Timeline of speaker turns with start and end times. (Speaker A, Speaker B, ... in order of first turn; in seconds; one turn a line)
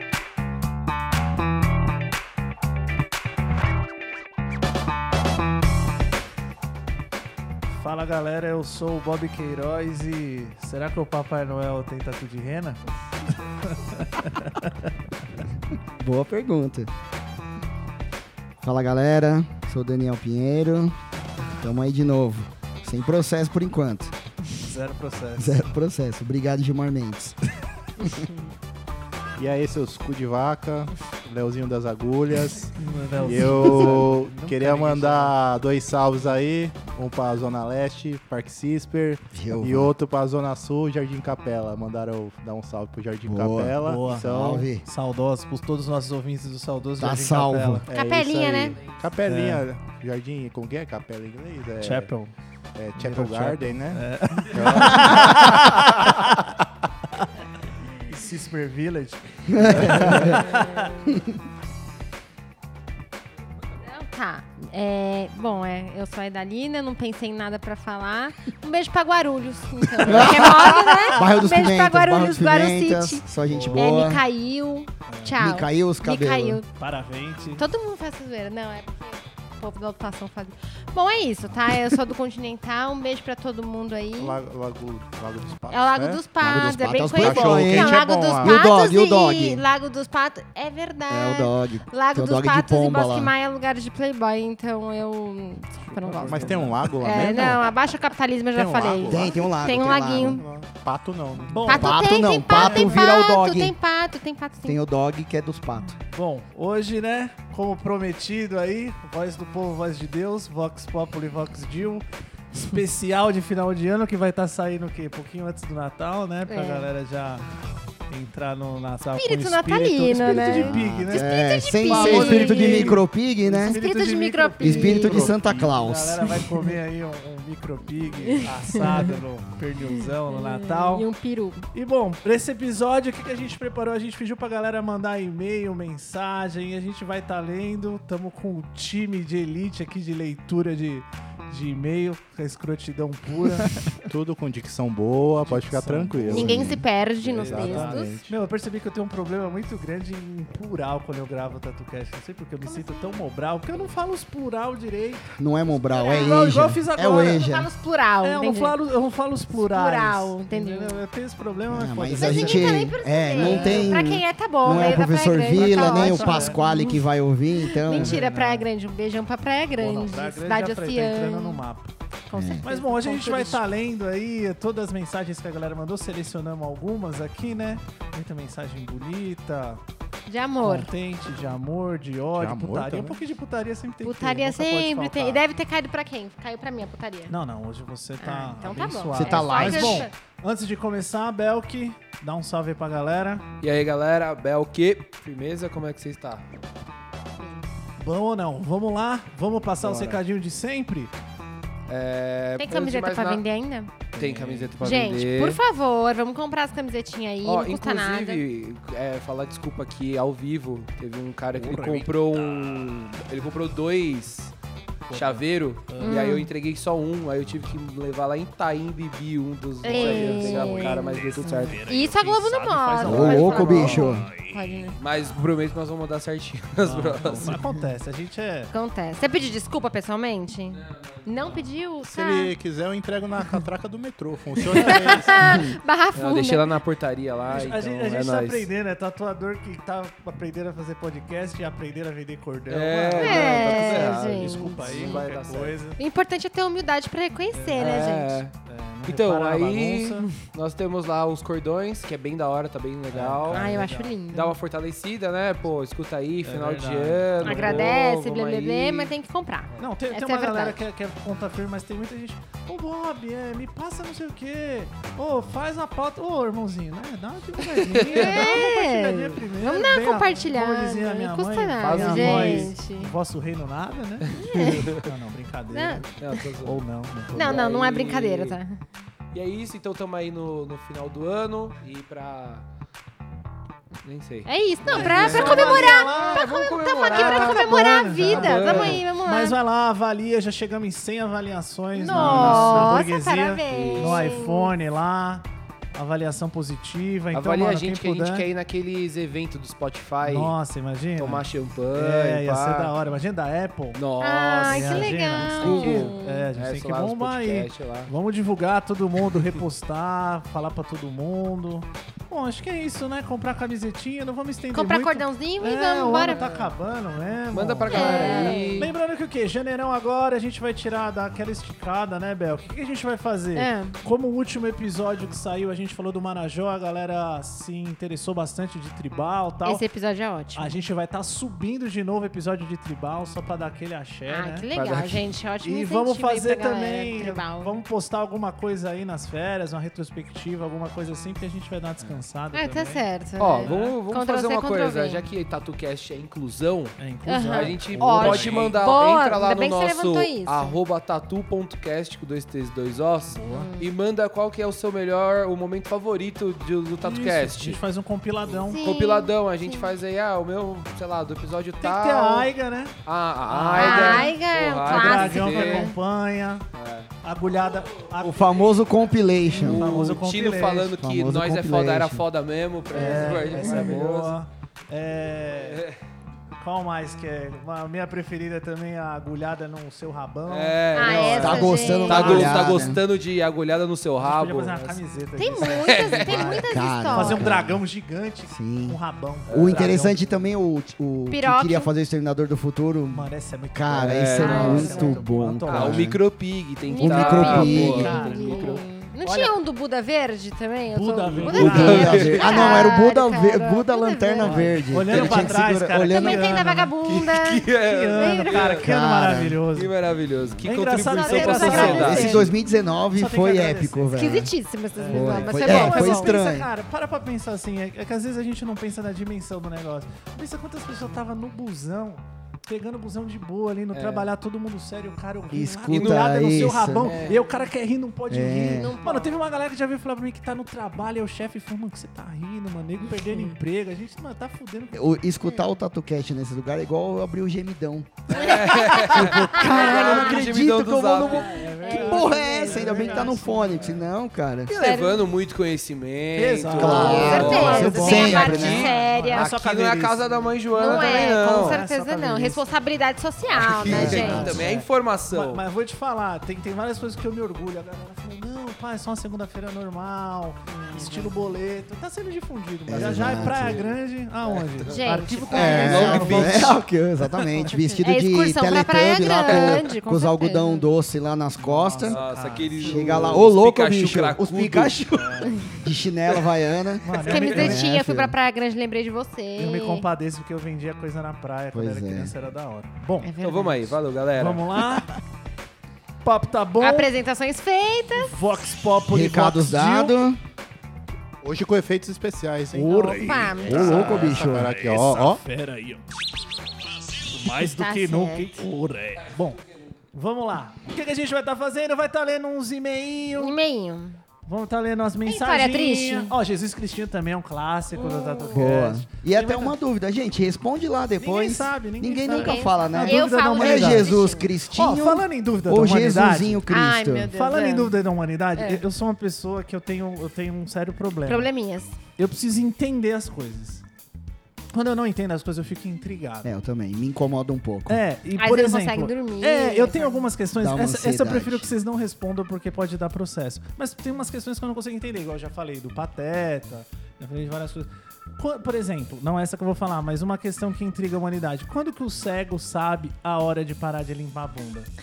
Speaker A: 7.8-14.9
Speaker B: 16.0-16.9
Speaker B: 18.6-21.0
Speaker B: 21.6-24.1
Speaker A: 24.6-25.7
Speaker B: 25.4-27.4
Speaker B: 28.0-28.2
Speaker C: 29.4-44.7
Speaker A: 32.8-35.4
Speaker B: 39.3-39.9
Speaker B: 43.2-44.8
Speaker A: 43.8-47.9
Speaker B: 47.0-47.8
Speaker C: 47.9-52.1
Speaker D: 47.9-48.8
Speaker A: 49.2-49.6
Speaker A: 51.8-52.3
Speaker C: 52.8-56.1
Speaker A: 53.0-56.5
Speaker A: 58.1-61.1
Speaker B: 59.5-60.5
Speaker B: 61.0-61.3
Speaker D: 63.8-76.7
Speaker B: 70.0-74.2
Speaker A: 70.1-71.2
Speaker A: 73.4-74.1
Speaker A: 75.1-75.4
Speaker B: 75.4-76.6
Speaker A: 76.7-77.6
Speaker D: 77.5-84.4
Speaker C: 84.2-86.2
Speaker D: 85.7-100.4
Speaker B: 86.4-89.6
Speaker C: 87.2-88.6
Speaker B: 91.1-93.3
Speaker A: 95.9-96.9
Speaker C: 96.2-97.7
Speaker C: 98.5-99.4
Speaker B: 99.0-100.4
Speaker C: 100.1-101.7
Speaker A: 101.5-103.0
Speaker D: 101.6-104.8
Speaker B: 101.7-103.7
Speaker B: 104.6-106.0
Speaker A: 106.0-117.4
Speaker D: 116.5-116.9
Speaker A: 118.1-131.1
Speaker D: 119.1-123.0
Speaker B: 120.5-123.8
Speaker D: 123.6-125.3
Speaker B: 124.6-126.3
Speaker C: 125.1-125.4
Speaker D: 126.4-126.7
Speaker D: 128.3-129.2
Speaker D: 130.3-131.6
Speaker A: 131.7-144.0
Speaker C: 144.1-146.7
Speaker A: 145.4-146.6
Speaker D: 146.3-148.2
Speaker B: 146.3-146.8
Speaker C: 147.2-148.3
Speaker A: 147.5-155.2
Speaker D: 152.6-153.2
Speaker B: 155.3-157.7
Speaker D: 155.9-156.5
Speaker A: 156.0-157.5
Speaker D: 157.2-158.8
Speaker A: 158.2-162.8
Speaker D: 159.5-161.0
Speaker B: 161.7-168.2
Speaker D: 162.1-167.0
Speaker A: 163.3-164.0
Speaker A: 165.5-166.6
Speaker D: 167.6-171.6
Speaker A: 167.9-168.7
Speaker A: 169.8-171.9
Speaker D: 172.3-173.6
Speaker B: 172.3-172.6
Speaker A: 172.6-179.8
Speaker D: 180.3-180.9
Speaker A: 180.6-185.4
Speaker C: 182.3-183.2
Speaker D: 184.0-187.3
Speaker A: 187.3-193.4
Speaker D: 188.2-190.1
Speaker B: 189.1-190.1
Speaker E: 193.6-196.4
Speaker D: 197.4-197.7
Speaker A: 198.0-201.2
Speaker E: 199.8-200.2
Speaker E: 201.9-203.4
Speaker D: 202.6-203.9
Speaker E: 204.1-205.6
Speaker A: 204.2-204.8
Speaker D: 204.8-208.4
Speaker E: 207.4-214.5
Speaker A: 211.5-212.6
Speaker A: 215.1-216.4
Speaker E: 215.1-221.8
Speaker D: 216.0-216.5
Speaker D: 219.8-221.2
Speaker A: 219.9-224.8
Speaker D: 221.8-225.0
Speaker B: 223.0-224.3
Speaker E: 225.0-227.6
Speaker A: 226.8-228.7
Speaker D: 228.7-232.5
Speaker E: 230.8-231.2
Speaker C: 232.0-235.6
Speaker D: 234.6-236.7
Speaker B: 235.4-235.7
Speaker E: 236.1-238.7
Speaker A: 237.5-246.0
Speaker E: 242.7-245.8
Speaker D: 243.2-245.2
Speaker D: 246.0-248.4
Speaker A: 247.5-248.1
Speaker E: 247.8-248.5
Speaker A: 248.6-250.3
Speaker E: 249.0-253.8
Speaker A: 253.1-254.1
Speaker D: 253.5-254.6
Speaker E: 254.3-259.1
Speaker A: 256.4-257.9
Speaker D: 257.4-260.8
Speaker A: 259.8-277.6
Speaker E: 267.8-268.6
Speaker D: 268.1-273.1
Speaker E: 271.8-272.7
Speaker D: 274.3-274.9
Speaker D: 275.7-276.1
Speaker E: 276.2-278.6
Speaker D: 277.3-278.8
Speaker E: 279.3-282.6
Speaker E: 284.0-289.0
Speaker D: 284.4-289.6
Speaker A: 284.9-298.5
Speaker D: 291.9-294.8
Speaker E: 292.1-293.0
Speaker E: 293.7-294.5
Speaker E: 297.3-300.5
Speaker A: 300.2-304.0
Speaker E: 301.2-302.9
Speaker E: 303.9-308.1
Speaker D: 304.2-306.5
Speaker A: 304.6-329.8
Speaker D: 314.7-316.5
Speaker E: 316.1-316.7
Speaker E: 317.5-318.9
Speaker D: 317.9-318.9
Speaker D: 323.5-324.0
Speaker D: 329.6-330.7
Speaker A: 330.5-334.6
Speaker D: 334.3-337.8
Speaker E: 334.7-335.2
Speaker A: 335.6-343.0
Speaker D: 342.5-345.2
Speaker E: 343.4-357.8
Speaker A: 343.6-344.0
Speaker A: 347.0-348.7
Speaker D: 347.2-350.8
Speaker A: 353.4-353.7
Speaker D: 353.4-353.9
Speaker A: 357.0-358.8
Speaker E: 358.5-362.5
Speaker D: 358.6-359.9
Speaker A: 361.8-362.9
Speaker E: 363.1-365.9
Speaker A: 363.5-366.6
Speaker D: 363.7-365.9
Speaker E: 366.7-367.1
Speaker A: 367.2-368.7
Speaker B: 368.2-369.9
Speaker A: 369.4-370.9
Speaker E: 369.6-374.4
Speaker B: 371.0-372.2
Speaker A: 372.9-375.8
Speaker D: 372.9-373.8
Speaker E: 375.7-375.9
Speaker A: 376.6-382.5
Speaker E: 380.5-385.0
Speaker D: 380.9-382.7
Speaker B: 381.1-383.0
Speaker A: 384.2-390.3
Speaker D: 385.4-387.6
Speaker E: 385.6-386.6
Speaker B: 386.6-387.8
Speaker B: 388.5-389.0
Speaker E: 389.5-389.9
Speaker B: 389.5-396.2
Speaker D: 391.3-391.9
Speaker A: 393.1-396.1
Speaker E: 393.9-395.0
Speaker D: 394.4-395.2
Speaker E: 395.7-398.8
Speaker D: 396.9-405.5
Speaker B: 397.0-398.2
Speaker A: 397.0-399.5
Speaker A: 400.9-402.9
Speaker B: 401.5-406.7
Speaker E: 401.5-402.6
Speaker A: 404.4-406.9
Speaker E: 405.1-405.4
Speaker D: 406.1-408.6
Speaker E: 407.1-408.9
Speaker A: 407.7-409.9
Speaker B: 408.8-409.6
Speaker E: 409.7-412.4
Speaker A: 410.6-412.6
Speaker D: 411.0-412.5
Speaker B: 411.6-414.5
Speaker A: 413.1-414.4
Speaker D: 414.1-416.4
Speaker A: 414.9-435.2
Speaker B: 415.1-416.7
Speaker E: 423.9-424.3
Speaker B: 425.5-427.1
Speaker E: 425.9-426.3
Speaker E: 426.9-427.4
Speaker D: 427.2-427.4
Speaker B: 428.3-428.9
Speaker D: 428.7-429.4
Speaker D: 433.0-433.6
Speaker B: 434.9-444.7
Speaker E: 438.3-441.7
Speaker D: 438.4-440.4
Speaker A: 438.8-440.7
Speaker A: 441.2-444.1
Speaker D: 441.6-443.4
Speaker E: 444.7-451.8
Speaker D: 444.8-445.3
Speaker A: 446.3-452.7
Speaker B: 446.7-448.9
Speaker D: 446.9-449.5
Speaker D: 450.8-454.6
Speaker B: 453.5-454.6
Speaker A: 453.7-466.8
Speaker E: 453.9-455.6
Speaker D: 460.7-461.5
Speaker B: 462.9-463.9
Speaker E: 463.0-464.8
Speaker D: 464.9-466.4
Speaker B: 465.5-472.2
Speaker E: 465.7-466.8
Speaker D: 467.6-470.9
Speaker A: 471.6-473.5
Speaker E: 472.0-475.6
Speaker B: 472.8-478.3
Speaker A: 475.1-475.6
Speaker A: 477.0-477.8
Speaker D: 477.2-480.1
Speaker E: 477.2-477.7
Speaker A: 479.6-483.3
Speaker B: 481.7-482.3
Speaker D: 483.2-483.9
Speaker E: 483.4-484.8
Speaker A: 484.4-485.2
Speaker A: 486.2-487.1
Speaker D: 486.8-488.4
Speaker A: 488.1-490.1
Speaker B: 489.1-490.4
Speaker C: 491.4-495.4
Speaker A: 492.7-496.0
Speaker D: 493.0-494.2
Speaker B: 493.6-495.4
Speaker A: 497.2-499.6
Speaker D: 497.6-498.6
Speaker A: 500.1-503.5
Speaker D: 503.4-504.2
Speaker A: 504.4-509.7
Speaker D: 505.2-506.3
Speaker D: 507.9-508.7
Speaker B: 508.5-517.3
Speaker A: 511.2-514.1
Speaker D: 512.3-514.5
Speaker A: 514.7-516.6
Speaker D: 516.7-518.0
Speaker A: 517.3-521.5
Speaker D: 518.5-518.8
Speaker D: 521.2-522.0
Speaker A: 522.2-523.8
Speaker A: 524.7-526.5
Speaker B: 526.4-528.0
Speaker A: 527.9-544.9
Speaker D: 528.4-530.3
Speaker B: 530.6-531.7